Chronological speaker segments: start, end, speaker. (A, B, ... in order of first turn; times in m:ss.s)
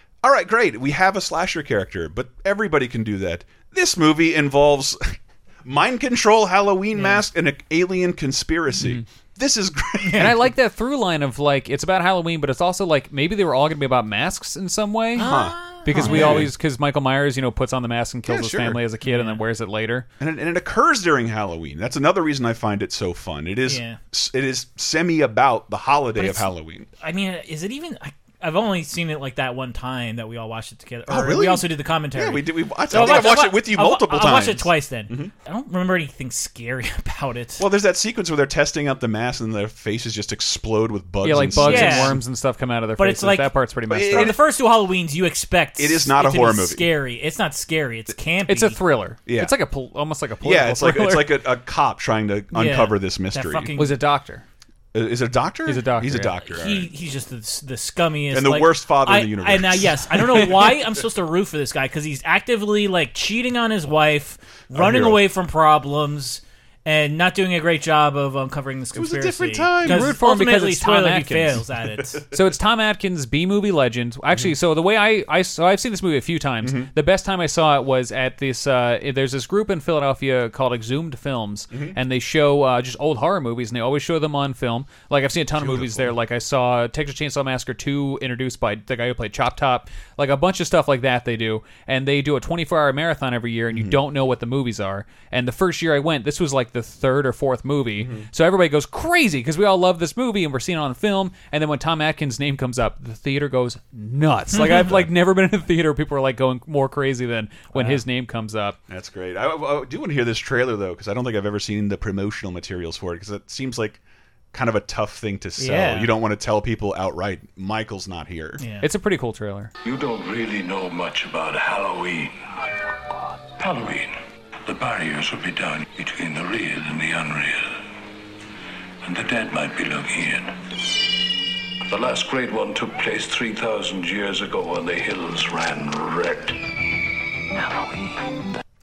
0:00.2-0:10.4 A
0:07.0-0:07.2 B
0:10.2-0:20.1 C
0:15.2-0:16.5 B
0:15.2-0:16.5 A
0:18.3-0:18.8 A
0:19.0-0:19.4 B
0:20.2-0:26.9 A
0:23.7-0:24.0 B
0:26.2-0:26.5 B
0:27.0-0:37.6 B
0:31.1-0:35.3 A
0:33.0-0:33.3 C
0:37.6-0:42.2 A
0:41.2-0:44.4 C
0:41.6-0:42.2 B
0:43.0-0:48.8 B
0:43.9-0:44.4 A
0:45.8-0:46.8 A
0:48.5-0:51.3 C
0:49.3-0:49.5 A
0:50.4-0:53.7 A
0:52.5-0:53.9 B
0:53.8-0:54.4 C
0:54.9-0:56.9 A
0:55.7-0:56.3 C
0:56.5-1:12.2 B
0:58.3-1:00.8 A
1:04.7-1:05.2 A
1:09.0-1:10.1 A
1:09.8-1:11.6 C
1:12.3-1:48.8 C
1:16.6-1:16.9 A
1:21.7-1:22.0 A
1:25.6-1:26.1 A
1:33.7-1:34.0 A
1:38.0-1:38.3 A
1:44.6-1:44.9 B
1:47.7-1:48.0 B
1:48.9-1:54.0 A
1:54.5-1:58.6 A
1:55.6-1:56.1 B
1:58.6-1:58.9 B
1:58.8-1:59.7 C
1:59.8-2:04.2 D
2:04.7-2:07.8 D
2:09.0-2:10.6 D
2:11.9-2:16.6 D